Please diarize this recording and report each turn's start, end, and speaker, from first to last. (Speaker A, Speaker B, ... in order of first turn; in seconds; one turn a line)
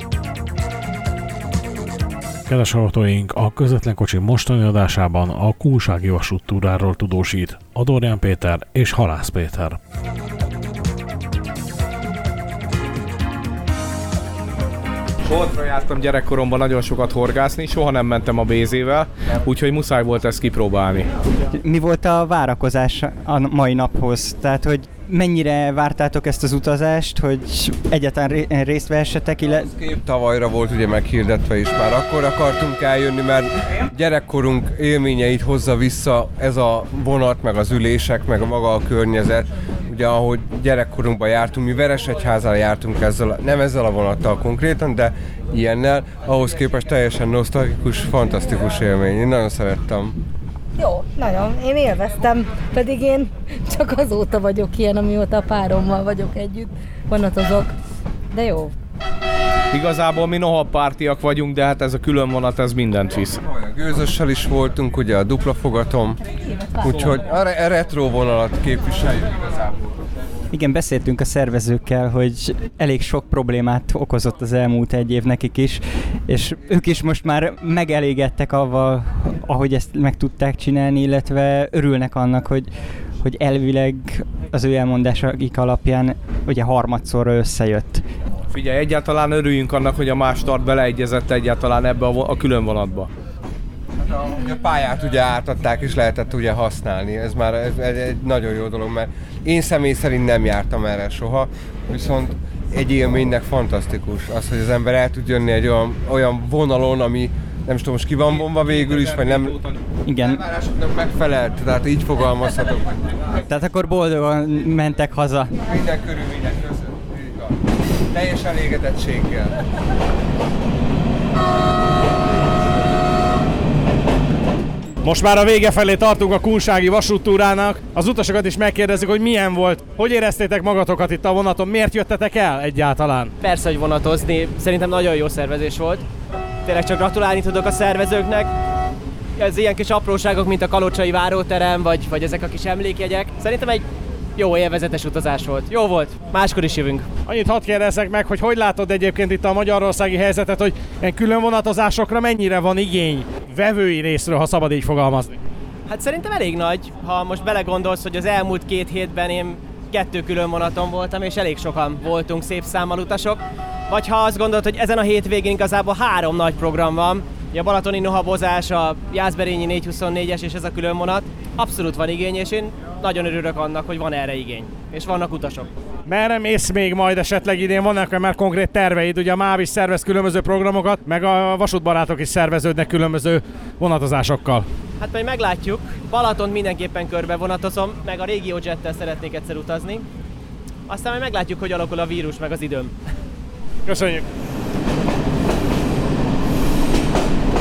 Speaker A: 2.5-9.8
Speaker B: 15.2-21.1
Speaker C: 21.5-29.7
Speaker D: 29.8-50.1
Speaker E: 50.8-57.7
Speaker E: 58.3-58.7
Speaker B: 59.7-63.4
Speaker D: 63.5-66.2
Speaker D: 66.7-69.8
Speaker C: 70.5-82.7
Speaker C: 83.2-88.0
Speaker B: 88.5-93.1
Speaker D: 94.1-109.6
Speaker C: 110.0-110.4
Speaker D: 110.5-113.0
Speaker C: 113.5-115.6
Speaker D: 115.7-117.5
Speaker D: 118.1-119.5
Speaker A: 125.0-133.3
Speaker F: 133.4-136.0
Speaker F: 136.6-138.5
Speaker F: 139.4-143.8
Speaker F: 144.3-147.1
Speaker A: 147.2-155.4
Speaker F: 155.9-175.7
Speaker A: 176.1-184.6
Speaker F: 185.0-190.1
Speaker F: 190.9-192.9
Speaker A: 193.8-194.2